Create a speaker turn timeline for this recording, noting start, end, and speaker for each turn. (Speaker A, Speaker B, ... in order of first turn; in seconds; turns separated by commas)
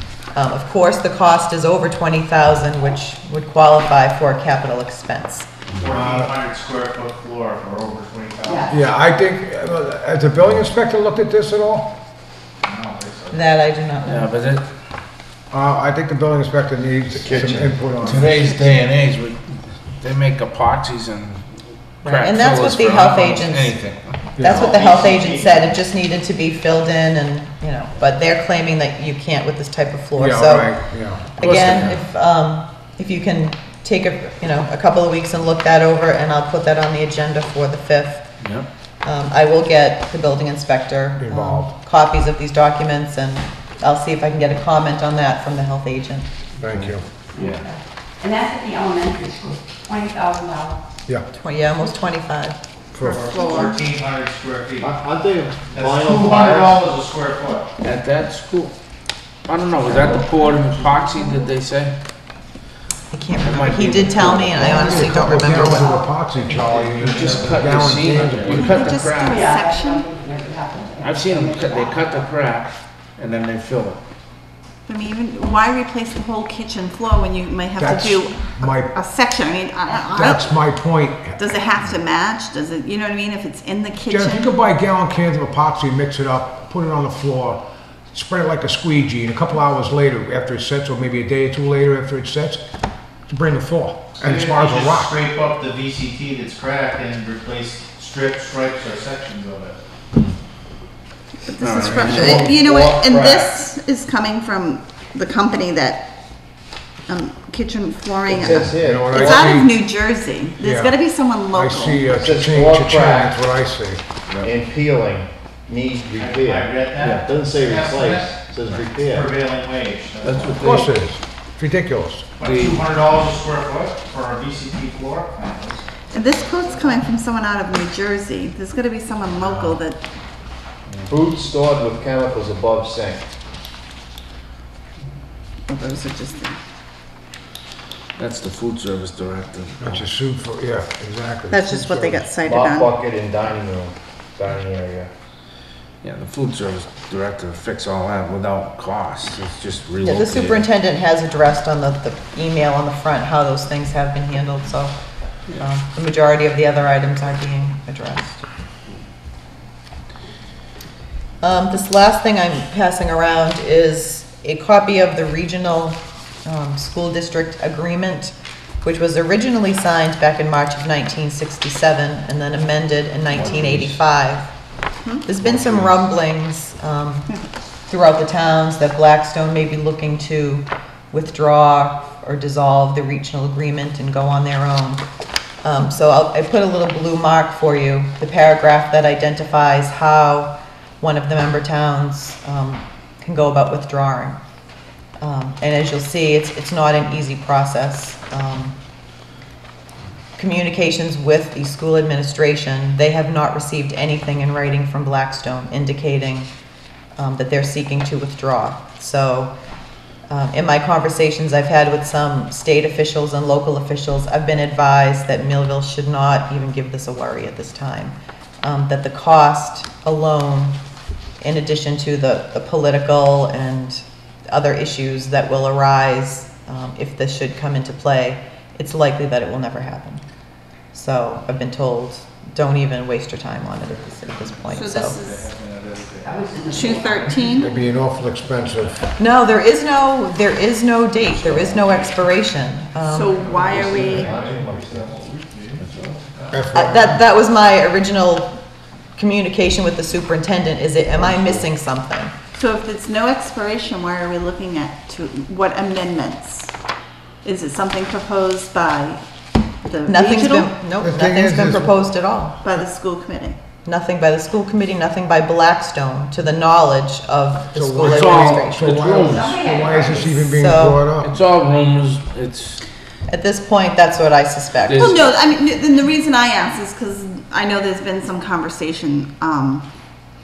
Speaker A: 0.3-5.5, Speaker B: 5.8-8.7, Speaker C: 5.9-6.3, Speaker D: 7.5-8.3, Speaker E: 8.4-8.8, Speaker C: 8.7-11.9, Speaker B: 12.6-13.3, Speaker A: 13.3-14.3, Speaker F: 14.0-14.6, Speaker C: 15.5-18.7, Speaker G: 17.1-17.8, Speaker F: 18.0-19.4, Speaker F: 20.0-21.4, Speaker F: 22.0-24.1, Speaker A: 22.0-23.8, Speaker C: 24.4-24.7, Speaker A: 24.4-30.8, Speaker B: 24.5-25.6, Speaker C: 30.2-31.6, Speaker A: 31.4-38.3, Speaker F: 31.4-32.0, Speaker F: 38.4-38.7, Speaker A: 39.0-46.3, Speaker C: 41.2-41.7, Speaker C: 46.6-47.0, Speaker E: 47.3-50.8, Speaker F: 47.4-47.7, Speaker A: 51.3-52.6, Speaker C: 52.9-53.3, Speaker B: 53.0-54.9, Speaker D: 53.3-53.8, Speaker G: 54.8-56.8, Speaker B: 55.7-57.7, Speaker F: 57.8-58.7, Speaker F: 59.5-61.9, Speaker A: 63.1-66.0, Speaker F: 63.4-65.0, Speaker C: 64.5-68.7, Speaker E: 64.8-66.6, Speaker B: 66.8-67.5, Speaker F: 67.0-69.4, Speaker D: 68.5-70.1, Speaker E: 68.7-72.2, Speaker F: 71.0-74.0, Speaker D: 74.9-80.7, Speaker C: 77.8-78.9, Speaker C: 80.1-81.4, Speaker D: 81.4-84.5, Speaker C: 84.1-92.6, Speaker C: 93.3-95.2, Speaker B: 94.2-99.7, Speaker D: 101.4-106.1, Speaker F: 101.6-102.5, Speaker G: 102.0-103.5, Speaker D: 107.1-112.2, Speaker G: 108.3-109.5, Speaker C: 108.7-109.7, Speaker C: 110.6-111.0, Speaker C: 111.5-114.0, Speaker G: 112.2-113.4, Speaker G: 114.4-119.3, Speaker B: 116.2-120.6, Speaker F: 117.0-117.2, Speaker F: 120.2-120.9, Speaker C: 120.6-122.3, Speaker B: 122.4-125.8, Speaker F: 122.4-122.9, Speaker D: 126.1-130.0, Speaker G: 131.1-133.2, Speaker D: 135.7-136.6, Speaker F: 138.2-140.0, Speaker C: 139.8-142.3, Speaker D: 141.5-142.9, Speaker G: 142.4-145.1, Speaker F: 146.0-150.7, Speaker A: 150.0-154.9, Speaker A: 155.6-158.4, Speaker A: 161.4-174.5, Speaker G: 173.4-173.9, Speaker D: 175.0-175.3, Speaker A: 175.2-177.3, Speaker G: 175.4-175.9, Speaker A: 177.9-185.0, Speaker A: 185.6-194.4, Speaker A: 195.2-198.7, Speaker A: 200.4-206.5, Speaker A: 207.2-209.5, Speaker A: 210.3-220.8, Speaker A: 221.4-230.2, Speaker A: 230.9-235.2, Speaker D: 234.7-235.3, Speaker B: 235.2-236.6, Speaker E: 236.2-237.6, Speaker D: 236.3-237.7, Speaker C: 237.6-239.0, Speaker A: 239.2-243.4, Speaker D: 243.0-244.3, Speaker B: 243.4-246.6, Speaker G: 243.6-245.2, Speaker F: 245.8-246.2, Speaker C: 246.5-247.2, Speaker A: 246.7-248.6, Speaker A: 249.2-252.3, Speaker G: 251.1-251.7, Speaker D: 252.5-256.8, Speaker D: 257.4-259.2, Speaker D: 259.8-260.8, Speaker A: 260.1-262.6, Speaker C: 261.0-262.0, Speaker D: 262.6-263.6, Speaker A: 263.8-269.2, Speaker C: 267.7-271.3, Speaker F: 268.0-269.5, Speaker E: 269.2-270.4, Speaker A: 270.4-271.0, Speaker F: 271.2-272.8, Speaker A: 273.3-275.3, Speaker F: 274.9-275.2, Speaker D: 274.9-279.9